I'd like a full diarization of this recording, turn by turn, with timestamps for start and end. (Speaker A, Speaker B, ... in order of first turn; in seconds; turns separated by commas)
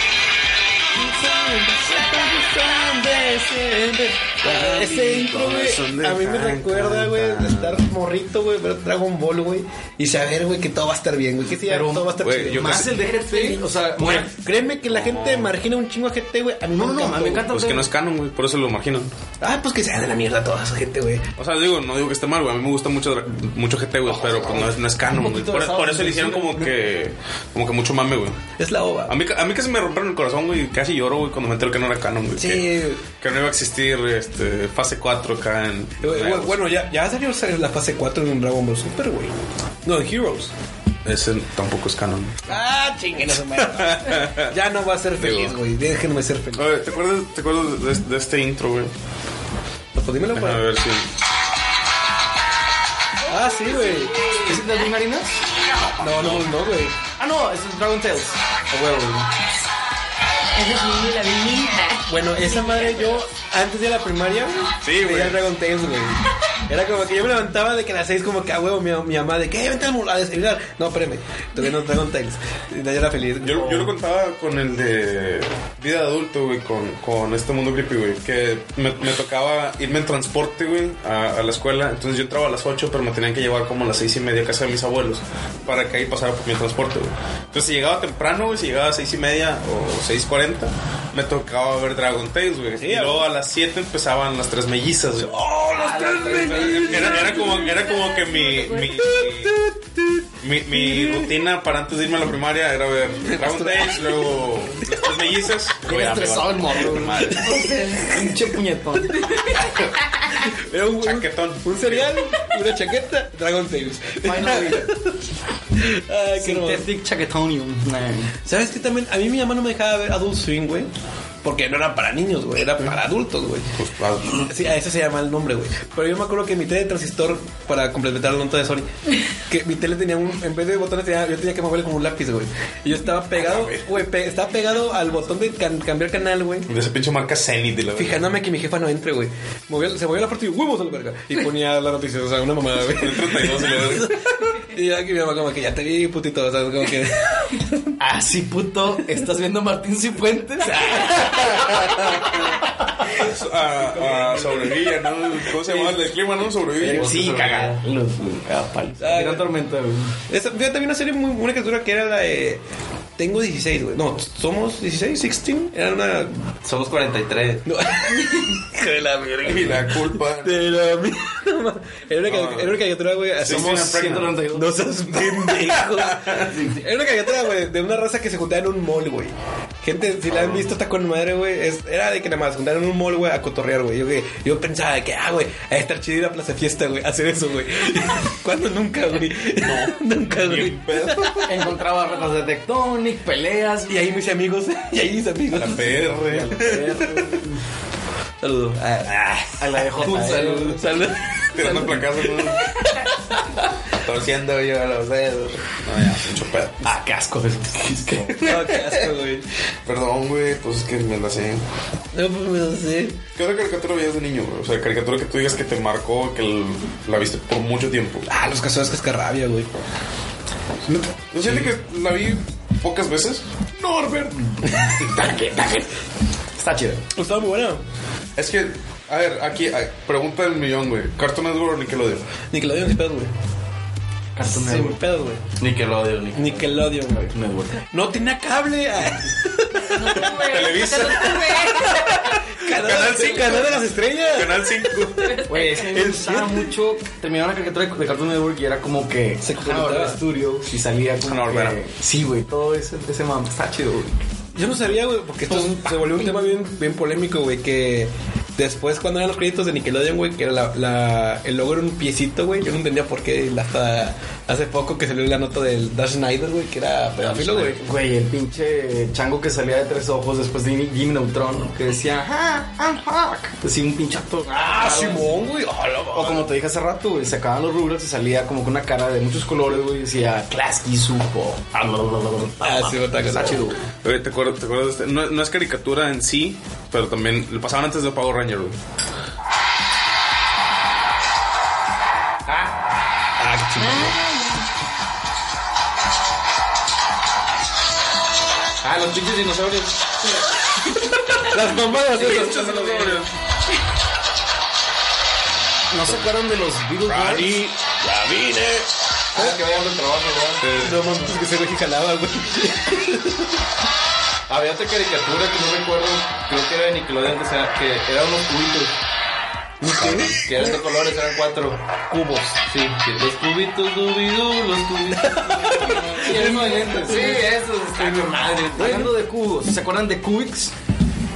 Speaker A: 0.9-17.4, Speaker B: 4.4-7.8, Speaker C: 11.7-14.3, Speaker B: 12.2-12.9, Speaker B: 14.9-15.5, Speaker C: 16.8-17.9, Speaker B: 17.4-19.1, Speaker A: 19.4-21.2, Speaker B: 21.4-28.4, Speaker C: 24.3-26.7, Speaker A: 28.6-29.1, Speaker B: 29.1-36.6, Speaker A: 32.4-33.0, Speaker A: 36.0-40.5, Speaker B: 41.0-42.6, Speaker A: 42.5-46.7, Speaker B: 43.6-44.5, Speaker B: 45.2-45.5, Speaker B: 46.5-48.9, Speaker A: 49.9-50.6, Speaker B: 50.3-51.1, Speaker A: 53.3-54.1, Speaker C: 54.4-55.4, Speaker B: 55.8-56.5, Speaker A: 56.0-57.0, Speaker C: 57.2-59.3, Speaker D: 60.5-63.2, Speaker A: 62.1-73.8, Speaker B: 64.8-65.4, Speaker B: 73.4-95.4, Speaker A: 92.8-93.3, Speaker A: 95.2-97.5, Speaker C: 96.1-96.8, Speaker B: 96.5-99.6, Speaker D: 97.0-99.0, Speaker A: 99.0-101.3, Speaker B: 100.4-107.7, Speaker A: 103.3-105.0, Speaker C: 105.8-109.3, Speaker A: 107.3-108.1, Speaker A: 110.4-115.2, Speaker B: 111.0-112.2, Speaker C: 114.2-114.9, Speaker A: 115.7-116.8, Speaker C: 116.4-118.3, Speaker A: 118.5-120.9, Speaker A: 121.4-123.7, Speaker B: 123.8-124.5, Speaker A: 124.4-128.9, Speaker A: 129.5-136.7, Speaker B: 133.3-133.9, Speaker B: 136.7-138.2, Speaker A: 137.9-147.9, Speaker B: 142.9-144.1, Speaker C: 148.0-151.2, Speaker A: 150.7-152.0, Speaker B: 151.3-152.5, Speaker B: 153.1-157.1, Speaker A: 154.0-154.5, Speaker C: 156.8-160.1, Speaker E: 156.9-157.8, Speaker A: 159.0-159.5, Speaker A: 160.3-162.6, Speaker A: 163.2-166.4, Speaker E: 166.6-167.6, Speaker A: 167.6-173.9, Speaker B: 169.4-170.7, Speaker B: 172.2-172.8, Speaker B: 173.4-174.4, Speaker C: 173.4-174.9, Speaker A: 174.5-191.7, Speaker B: 175.5-176.5, Speaker B: 180.3-180.7, Speaker B: 189.6-191.5, Speaker C: 191.5-194.0, Speaker A: 193.9-196.4, Speaker B: 195.5-197.3, Speaker C: 196.1-197.6, Speaker A: 198.4-203.7, Speaker C: 199.6-200.8, Speaker E: 200.0-200.6, Speaker B: 201.5-202.7, Speaker B: 204.0-206.9, Speaker C: 206.8-208.5, Speaker B: 208.3-209.0, Speaker A: 208.4-209.4, Speaker B: 209.8-211.6, Speaker A: 212.1-213.2, Speaker B: 213.3-218.3, Speaker A: 218.3-219.7, Speaker B: 220.8-223.4, Speaker A: 221.4-221.7, Speaker C: 223.8-225.9, Speaker A: 224.6-225.1, Speaker C: 226.6-227.0, Speaker A: 227.1-227.8, Speaker B: 228.3-232.2, Speaker A: 232.5-233.3, Speaker C: 234.3-235.0, Speaker A: 234.4-235.4, Speaker E: 235.6-236.7, Speaker A: 236.3-237.3, Speaker C: 237.0-237.8, Speaker A: 237.9-240.4, Speaker D: 239.8-242.4, Speaker B: 240.1-241.5, Speaker A: 240.9-246.7, Speaker B: 242.6-245.4, Speaker D: 245.2-245.8, Speaker C: 245.4-254.2, Speaker A: 249.4-250.2, Speaker B: 251.2-251.8, Speaker A: 254.5-267.8, Speaker C: 255.5-256.3, Speaker C: 267.4-275.4, Speaker A: 274.5-276.5, Speaker C: 276.1-283.8, Speaker A: 282.6-283.7, Speaker B: 284.0-288.7, Speaker A: 293.4-294.2, Speaker D: 293.8-294.7, Speaker E: 298.8-299.9, Speaker A: 301.4-303.2, Speaker B: 302.1-303.3, Speaker C: 305.9-307.5, Speaker B: 307.1-307.7, Speaker A: 308.0-309.6, Speaker E: 309.3-310.8, Speaker B: 310.6-311.0, Speaker A: 310.8-313.6, Speaker E: 314.5-318.9, Speaker A: 319.8-320.8, Speaker B: 319.9-320.4, Speaker E: 320.4-321.8, Speaker A: 322.1-322.6, Speaker E: 322.6-326.5, Speaker A: 325.2-329.1, Speaker C: 326.1-330.7, Speaker E: 327.9-328.8